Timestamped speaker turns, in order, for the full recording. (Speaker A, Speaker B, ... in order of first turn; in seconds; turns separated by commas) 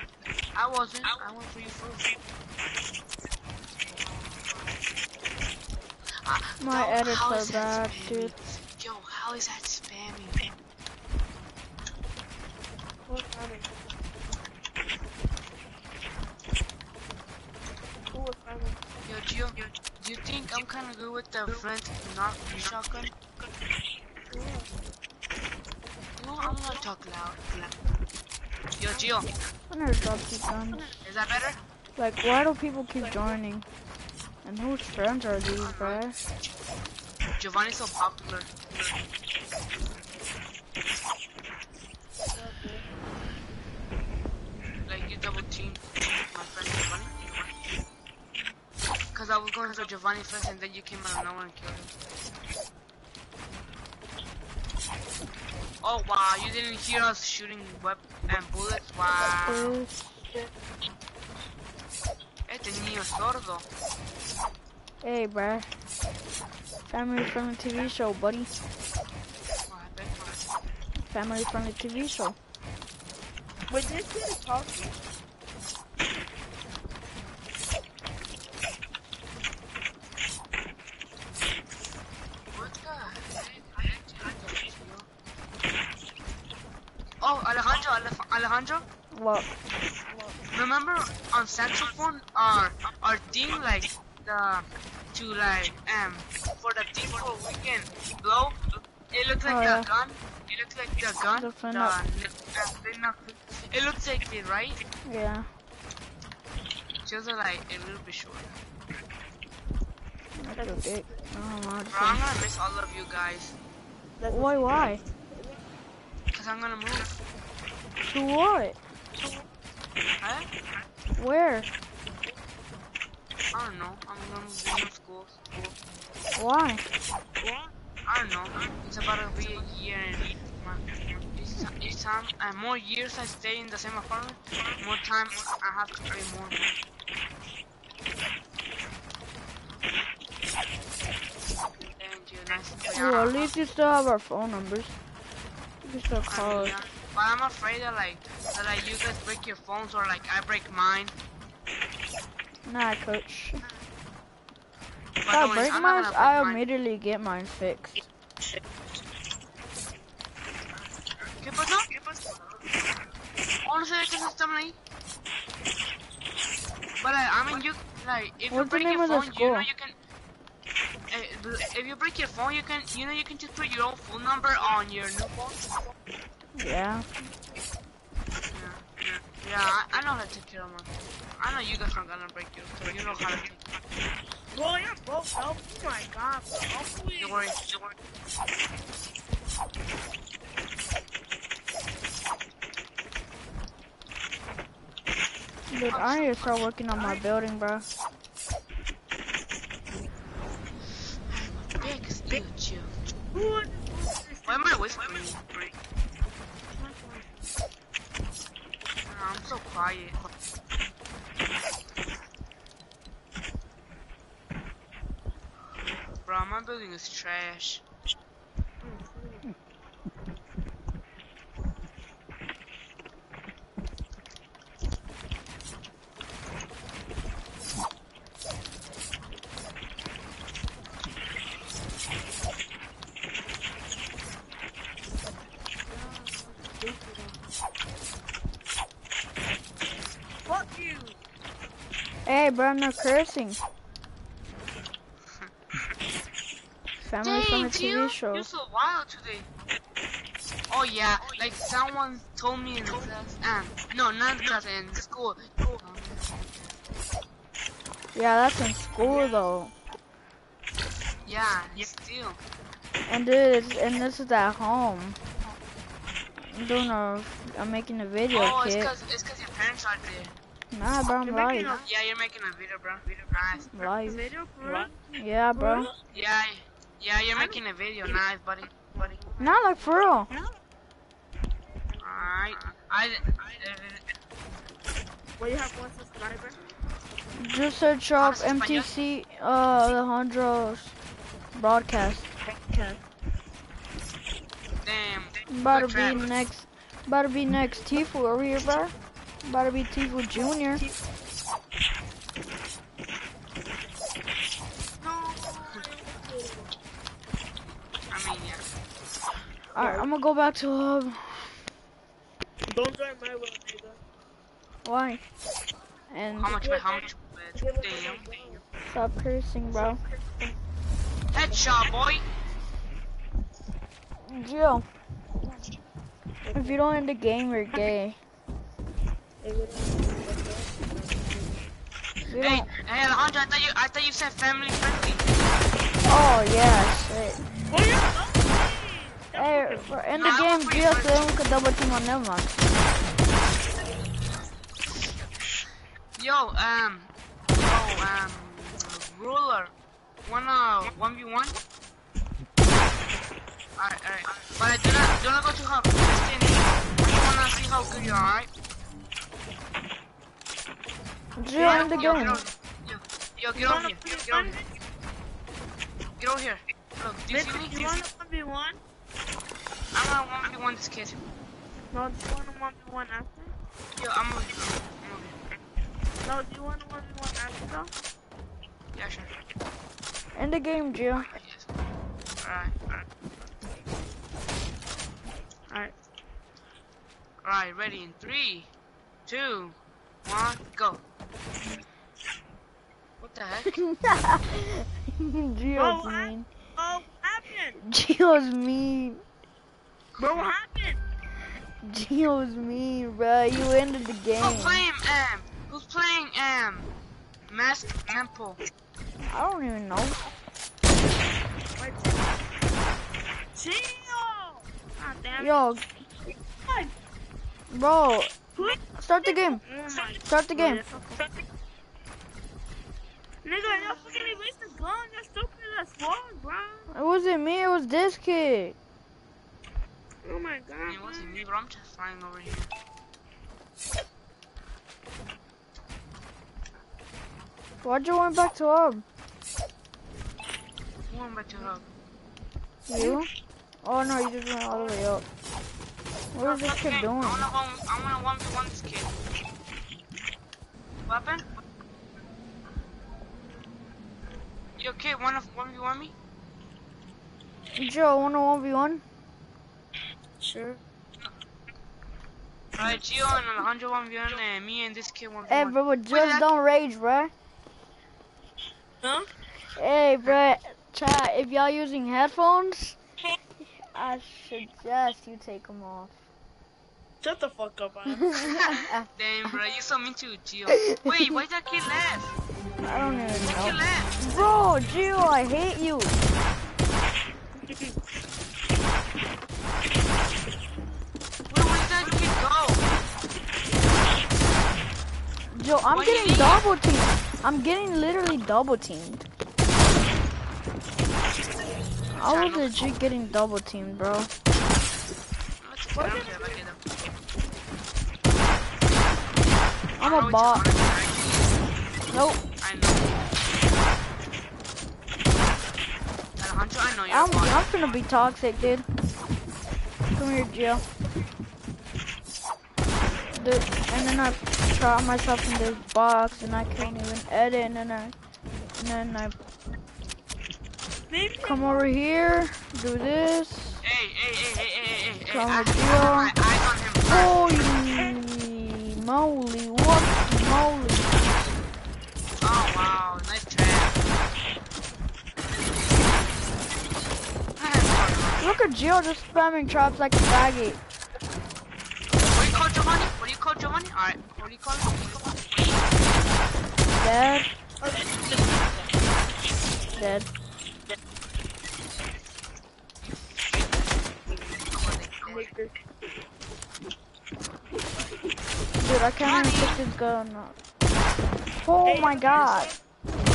Speaker A: 0.5-2.1, Speaker A: 6.2-10.5, Speaker B: 6.6-8.3, Speaker C: 13.1-13.8, Speaker C: 18.1-18.9, Speaker A: 19.1-23.1, Speaker C: 24.3-24.8, Speaker A: 26.1-27.7, Speaker C: 26.4-26.9, Speaker A: 28.8-29.3, Speaker B: 29.7-30.9, Speaker A: 31.0-31.6, Speaker B: 31.9-33.7, Speaker C: 33.0-33.4, Speaker B: 34.4-36.1, Speaker A: 35.6-36.0, Speaker A: 37.4-38.5, Speaker C: 42.3-42.9, Speaker A: 44.9-47.1, Speaker A: 49.1-51.9, Speaker A: 55.8-59.8, Speaker B: 59.5-60.5, Speaker A: 62.5-63.6, Speaker B: 65.0-65.7, Speaker B: 66.9-68.5, Speaker A: 69.7-70.3, Speaker B: 71.1-72.3, Speaker C: 73.7-75.0, Speaker A: 82.5-85.1, Speaker A: 87.2-88.8, Speaker B: 89.1-89.5, Speaker C: 90.1-90.3, Speaker A: 90.5-104.8, Speaker B: 99.4-99.9, Speaker B: 101.3-102.0, Speaker B: 105.0-105.5, Speaker A: 107.0-108.5, Speaker B: 110.4-112.2, Speaker C: 110.6-110.9, Speaker A: 111.9-113.5, Speaker C: 114.2-115.6, Speaker B: 114.3-115.0, Speaker A: 116.3-117.1, Speaker B: 118.0-118.8, Speaker A: 120.2-120.5, Speaker B: 121.2-121.7, Speaker A: 123.5-125.5, Speaker B: 126.3-126.8, Speaker C: 127.4-127.7, Speaker A: 128.1-136.7, Speaker A: 141.9-143.5, Speaker B: 142.9-144.9, Speaker B: 145.8-146.8, Speaker A: 146.3-151.1, Speaker B: 152.7-153.7, Speaker A: 155.2-156.6, Speaker B: 155.3-158.0, Speaker A: 161.4-161.9, Speaker A: 163.6-164.8, Speaker A: 167.0-169.9, Speaker B: 168.5-169.7, Speaker A: 171.1-175.9, Speaker B: 176.5-177.1, Speaker A: 178.5-183.8, Speaker C: 184.5-187.5, Speaker A: 187.2-187.9, Speaker B: 195.7-197.8, Speaker A: 195.9-197.2, Speaker A: 201.3-202.9, Speaker C: 203.3-205.3, Speaker A: 204.4-205.7, Speaker C: 206.7-207.5, Speaker A: 209.1-210.2, Speaker A: 216.2-217.8, Speaker C: 218.8-219.5, Speaker C: 235.8-237.4, Speaker C: 240.4-241.2, Speaker B: 242.2-243.6, Speaker B: 247.0-248.5, Speaker A: 247.2-249.5, Speaker A: 250.7-256.7, Speaker B: 258.1-259.7, Speaker A: 261.2-262.4, Speaker B: 263.1-265.2, Speaker B: 266.4-268.9, Speaker A: 268.3-270.3, Speaker B: 270.7-271.8, Speaker C: 271.2-271.9, Speaker A: 271.8-273.7, Speaker B: 273.7-274.3, Speaker C: 273.8-276.0, Speaker B: 275.1-275.9, Speaker A: 276.1-279.3, Speaker C: 277.3-277.6, Speaker C: 278.9-279.8, Speaker B: 279.4-280.3, Speaker C: 282.0-282.3, Speaker A: 282.0-284.0, Speaker C: 285.4-286.6, Speaker B: 287.4-290.9, Speaker A: 288.2-288.9, Speaker B: 291.5-292.3, Speaker C: 292.5-293.0, Speaker A: 294.8-296.3, Speaker B: 295.5-300.8, Speaker C: 305.0-306.7, Speaker A: 308.1-308.6, Speaker C: 309.7-310.1, Speaker B: 309.7-311.6, Speaker C: 312.7-314.0, Speaker B: 314.8-315.2, Speaker B: 316.1-316.8, Speaker A: 316.4-318.3, Speaker C: 317.5-318.6, Speaker B: 318.9-320.0, Speaker C: 319.7-320.6, Speaker A: 321.3-322.2, Speaker C: 321.4-321.6, Speaker B: 324.2-324.9, Speaker C: 326.4-326.8, Speaker B: 326.5-328.2, Speaker C: 329.4-331.7, Speaker B: 332.3-332.7, Speaker A: 332.4-335.2, Speaker B: 336.1-337.4, Speaker C: 337.7-340.0, Speaker B: 339.3-342.5, Speaker A: 340.1-341.3, Speaker A: 346.2-349.7, Speaker A: 350.2-351.6, Speaker A: 353.8-358.5, Speaker B: 361.4-362.4, Speaker C: 361.5-362.4, Speaker A: 361.6-364.6, Speaker C: 363.6-364.7, Speaker A: 366.2-368.0, Speaker C: 367.3-368.8, Speaker A: 369.9-371.3, Speaker C: 371.9-373.5, Speaker A: 374.0-375.4, Speaker C: 376.2-377.9, Speaker A: 378.9-379.3, Speaker B: 380.3-381.3, Speaker A: 381.1-381.7, Speaker A: 382.4-382.7, Speaker C: 385.7-385.9, Speaker A: 387.4-388.7, Speaker A: 389.3-391.0, Speaker A: 393.2-393.7, Speaker B: 393.7-396.5, Speaker C: 395.7-397.8, Speaker B: 397.8-399.2, Speaker A: 400.2-400.5, Speaker C: 400.2-401.0, Speaker B: 401.8-404.8, Speaker A: 404.4-406.9, Speaker A: 407.5-408.6, Speaker B: 409.3-410.2, Speaker C: 411.8-412.4, Speaker C: 413.5-415.6, Speaker B: 415.4-415.8, Speaker C: 416.6-416.9, Speaker B: 417.7-418.4, Speaker C: 418.6-421.4, Speaker B: 418.9-419.6, Speaker B: 420.2-420.8, Speaker C: 423.4-426.9, Speaker B: 423.6-424.3, Speaker B: 426.9-428.8, Speaker C: 430.2-431.4, Speaker A: 430.9-432.7, Speaker B: 437.8-439.0, Speaker A: 441.1-441.9, Speaker B: 442.9-443.3, Speaker C: 442.9-443.2, Speaker B: 443.8-445.2, Speaker B: 446.3-447.4, Speaker A: 446.4-449.1, Speaker A: 451.1-451.4, Speaker A: 454.8-456.1, Speaker B: 457.8-459.0, Speaker C: 460.4-460.8, Speaker A: 462.7-466.5, Speaker B: 465.5-467.3, Speaker C: 469.0-469.3, Speaker B: 469.8-473.0, Speaker B: 473.6-476.1, Speaker C: 477.2-478.7, Speaker B: 478.2-479.1, Speaker A: 478.5-482.3, Speaker B: 480.7-481.0, Speaker B: 482.8-486.1, Speaker A: 483.3-484.2, Speaker C: 487.6-488.0, Speaker A: 491.5-492.8, Speaker B: 495.5-499.2, Speaker A: 495.9-496.6, Speaker B: 502.2-504.3, Speaker A: 502.2-502.8, Speaker A: 505.6-506.8, Speaker C: 505.9-506.6, Speaker A: 510.0-511.5, Speaker B: 510.0-510.6, Speaker B: 512.1-512.4, Speaker A: 512.4-513.1, Speaker A: 516.4-517.9, Speaker B: 517.1-518.9, Speaker B: 520.1-520.8, Speaker B: 523.3-528.1, Speaker B: 528.8-529.4, Speaker C: 531.1-531.9, Speaker B: 531.4-533.8, Speaker A: 533.8-537.6, Speaker B: 535.3-536.3, Speaker B: 537.1-541.4, Speaker A: 542.4-544.0, Speaker A: 547.6-548.5, Speaker B: 548.4-550.8, Speaker A: 552.2-555.8, Speaker B: 556.9-557.5, Speaker C: 557.8-558.7, Speaker B: 559.9-560.3, Speaker A: 563.5-565.5, Speaker C: 565.2-565.7, Speaker B: 568.8-570.6, Speaker A: 569.2-569.8, Speaker B: 571.6-572.7, Speaker C: 571.8-572.8